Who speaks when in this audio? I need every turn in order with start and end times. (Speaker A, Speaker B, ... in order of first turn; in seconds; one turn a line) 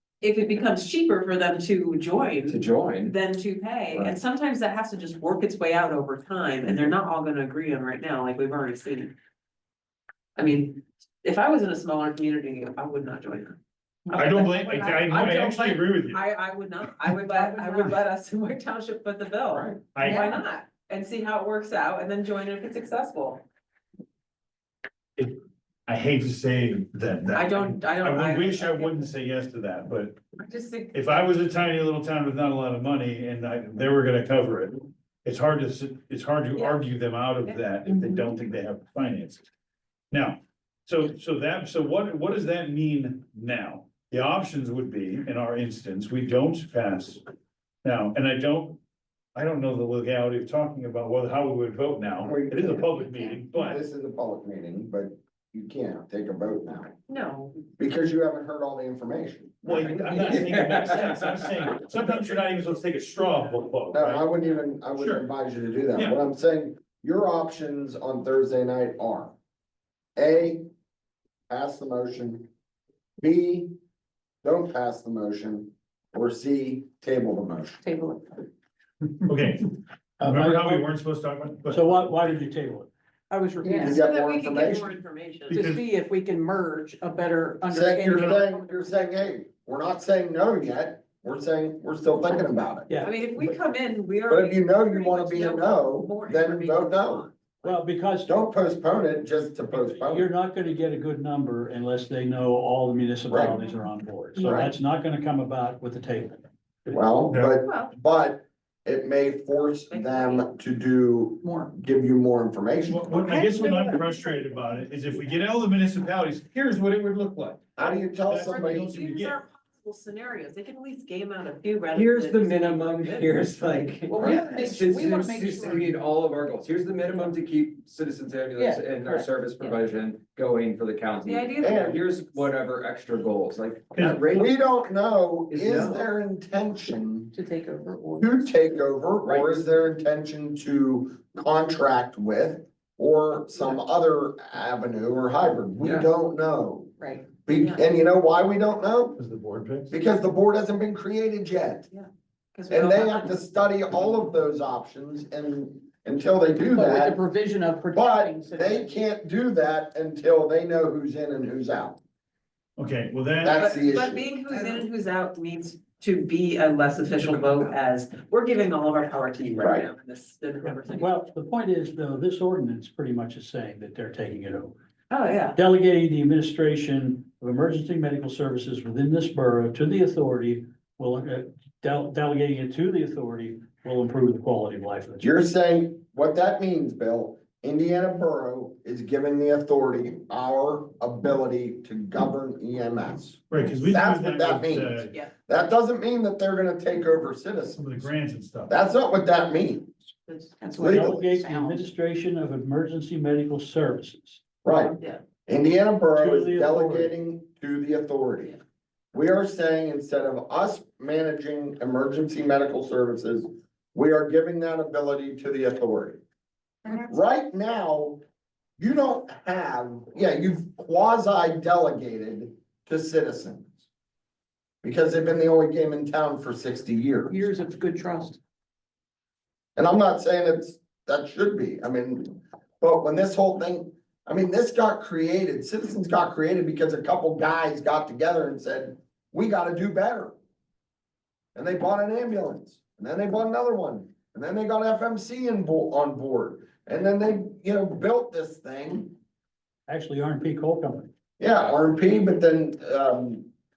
Speaker A: 0.2-9.1
Speaker B: 2.5-3.2
Speaker A: 10.4-13.6
Speaker A: 14.1-23.4
Speaker C: 14.1-16.2
Speaker D: 17.3-17.9
Speaker C: 19.9-20.3
Speaker D: 20.0-20.4
Speaker C: 25.2-30.2
Speaker A: 27.3-29.1
Speaker A: 30.4-31.1
Speaker C: 30.9-39.5
Speaker A: 37.5-38.3
Speaker C: 40.1-47.2
Speaker C: 47.8-48.8
Speaker C: 49.4-53.8
Speaker E: 52.2-56.9
Speaker A: 57.1-57.6
Speaker E: 57.8-59.9
Speaker C: 59.6-64.3
Speaker B: 59.7-61.5
Speaker E: 63.9-69.3
Speaker C: 64.9-65.2
Speaker E: 70.2-70.7
Speaker E: 71.5-72.5
Speaker E: 73.2-73.7
Speaker E: 74.4-77.8
Speaker D: 77.8-78.4
Speaker C: 79.2-82.1
Speaker F: 80.2-80.9
Speaker F: 81.7-82.9
Speaker D: 83.3-84.0
Speaker E: 83.6-85.0
Speaker A: 83.8-85.6
Speaker C: 85.5-85.9
Speaker D: 85.5-88.7
Speaker E: 87.7-92.9
Speaker A: 93.0-97.7
Speaker E: 94.3-97.3
Speaker F: 97.6-98.3
Speaker E: 98.3-100.3
Speaker F: 99.7-107.1
Speaker E: 103.3-103.6
Speaker A: 104.4-104.7
Speaker E: 104.4-104.7
Speaker E: 106.9-113.6
Speaker C: 107.3-107.6
Speaker A: 107.7-107.9
Speaker A: 109.9-110.5
Speaker C: 112.9-119.4
Speaker E: 117.8-119.0
Speaker A: 118.4-123.3
Speaker B: 121.9-134.5
Speaker D: 124.1-125.9
Speaker D: 128.6-129.3
Speaker A: 131.2-132.1
Speaker E: 131.6-132.0
Speaker C: 133.9-134.4
Speaker E: 134.3-137.3
Speaker B: 135.5-136.1
Speaker D: 137.3-138.5
Speaker E: 138.2-149.2
Speaker B: 139.2-139.6
Speaker B: 145.8-146.1
Speaker D: 147.0-147.3
Speaker A: 147.5-147.9
Speaker C: 149.2-149.9
Speaker E: 149.9-151.9
Speaker A: 151.9-153.3
Speaker E: 152.7-157.2
Speaker D: 156.7-159.0
Speaker E: 157.9-162.0
Speaker C: 162.8-163.7
Speaker E: 163.4-164.2
Speaker A: 163.6-171.1
Speaker E: 169.6-169.9
Speaker F: 170.6-174.8
Speaker A: 175.1-175.6
Speaker F: 175.6-185.3
Speaker E: 185.2-198.0
Speaker C: 193.5-195.1
Speaker C: 197.8-198.8
Speaker E: 198.7-199.9
Speaker D: 200.6-201.9
Speaker E: 200.8-201.4
Speaker F: 200.8-204.4
Speaker E: 204.6-208.6
Speaker F: 206.2-207.1
Speaker E: 209.1-216.2
Speaker E: 216.9-218.2
Speaker E: 218.8-223.8
Speaker E: 224.8-227.5
Speaker D: 227.3-228.4
Speaker E: 229.8-240.3
Speaker E: 241.6-249.2
Speaker F: 249.9-251.1
Speaker E: 251.4-253.5